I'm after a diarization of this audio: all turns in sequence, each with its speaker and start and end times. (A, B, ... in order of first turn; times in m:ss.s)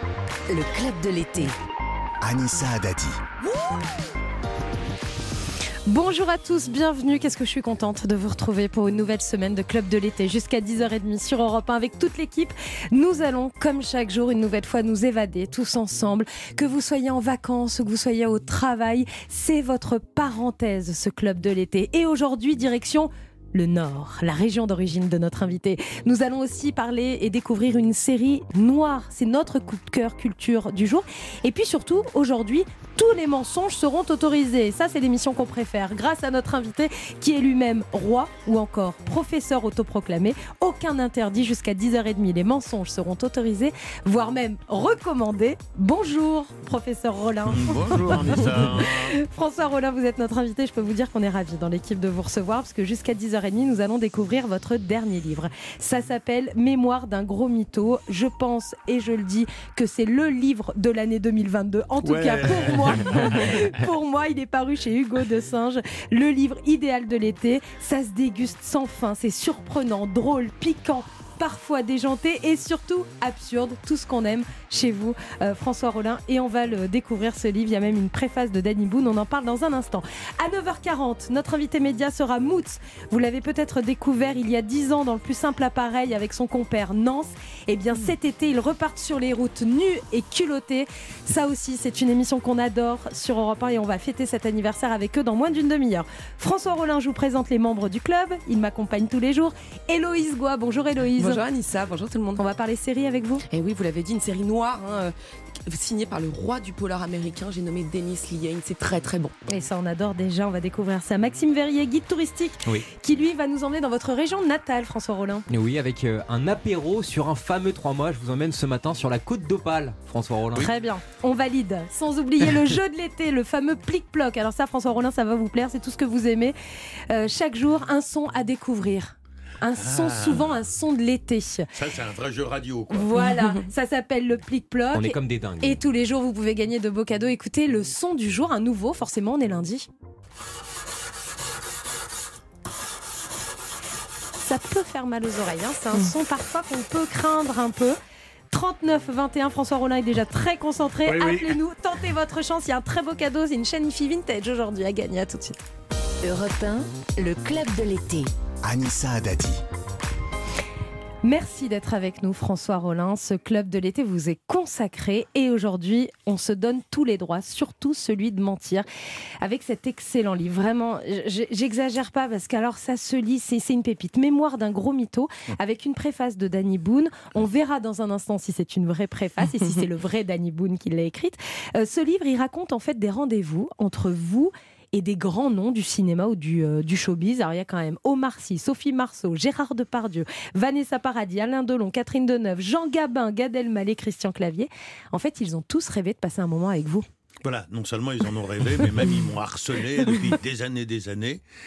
0:00.5-0:01.5 A
0:02.2-0:03.2 B
0:05.9-1:41.4 C
0:47.4-0:49.2 D
1:02.0-1:03.6 D
1:41.1-1:42.4 E
1:42.4-1:43.4 C
1:43.5-1:49.4 E
1:49.5-1:55.4 C
1:55.5-2:00.7 F
2:00.6-2:06.5 C
2:07.1-2:11.7 C
2:09.8-2:10.6 D
2:11.7-2:13.1 D
2:12.9-2:19.9 C
2:14.9-2:15.8 F
2:24.4-2:28.0 C
2:28.5-2:35.6 C
2:31.0-2:31.5 D
2:36.2-2:38.3 A
2:38.6-2:39.6 B
2:41.2-2:48.9 C
2:49.4-3:17.0 C
3:17.4-3:21.4 D